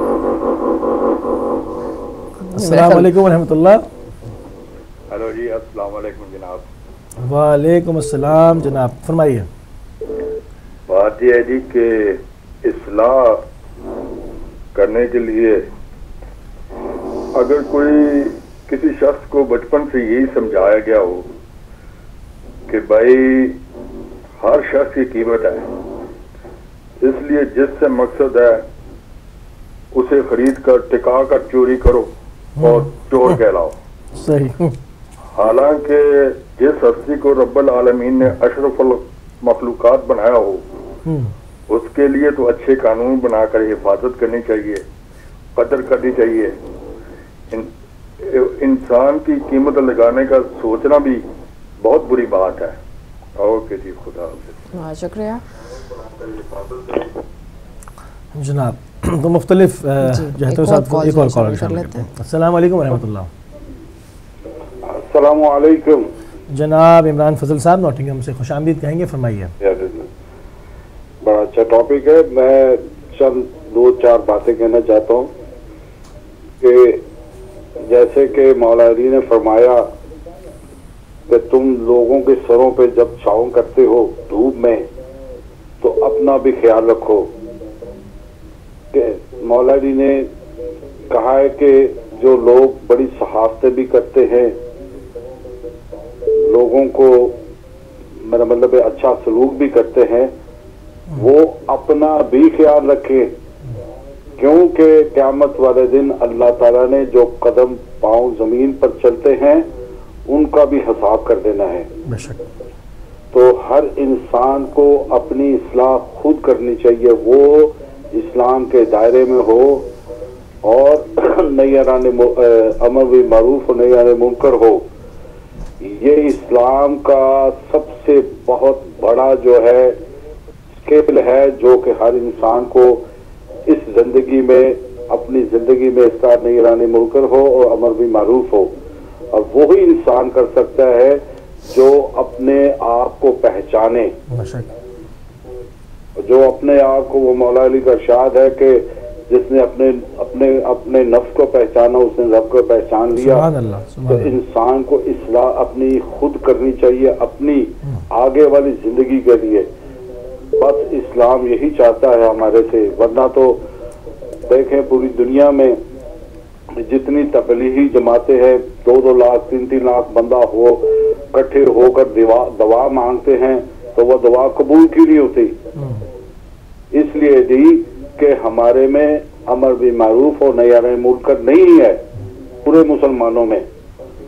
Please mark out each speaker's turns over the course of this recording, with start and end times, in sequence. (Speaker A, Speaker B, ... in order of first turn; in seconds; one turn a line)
Speaker A: 2.5-3.1
Speaker B: 2.5-3.9
Speaker C: 5.1-6.7
Speaker B: 7.2-9.5
Speaker C: 10.9-13.4
Speaker C: 14.8-15.7
Speaker C: 17.4-21.3
Speaker C: 22.7-23.6
Speaker C: 24.4-25.7
Speaker C: 27.0-28.6
Speaker C: 29.9-33.8
Speaker B: 32.6-33.4
Speaker B: 34.1-34.8
Speaker C: 35.4-40.7
Speaker B: 41.1-41.3
Speaker C: 41.7-44.8
Speaker C: 45.6-46.5
Speaker C: 47.5-51.2
Speaker C: 51.8-52.8
Speaker C: 53.4-54.5
Speaker A: 54.7-55.4
Speaker C: 56.4-57.0
Speaker B: 58.4-63.3
Speaker A: 60.0-62.1
Speaker D: 64.8-66.1
Speaker B: 66.5-69.5
Speaker D: 69.6-70.1
Speaker D: 71.2-75.3
Speaker D: 76.6-77.0
Speaker D: 77.9-79.9
Speaker D: 81.3-84.8
Speaker D: 85.8-87.3
Speaker D: 88.9-90.3
Speaker D: 91.1-94.6
Speaker D: 96.4-97.4
Speaker D: 98.2-100.3
Speaker D: 101.2-103.3
Speaker D: 104.4-109.7
Speaker D: 110.3-111.9
Speaker B: 112.1-112.4
Speaker D: 113.3-119.9
Speaker D: 120.6-124.8
Speaker D: 125.8-130.0
Speaker D: 130.8-133.0
Speaker D: 133.7-138.7
Speaker D: 139.3-144.2
Speaker B: 144.3-144.7
Speaker D: 146.2-153.5
Speaker B: 153.1-154.4
Speaker D: 154.1-159.7
Speaker D: 160.6-163.6
Speaker D: 164.5-165.8
Speaker D: 166.8-175.6
Speaker D: 176.9-182.0
Speaker D: 182.7-183.7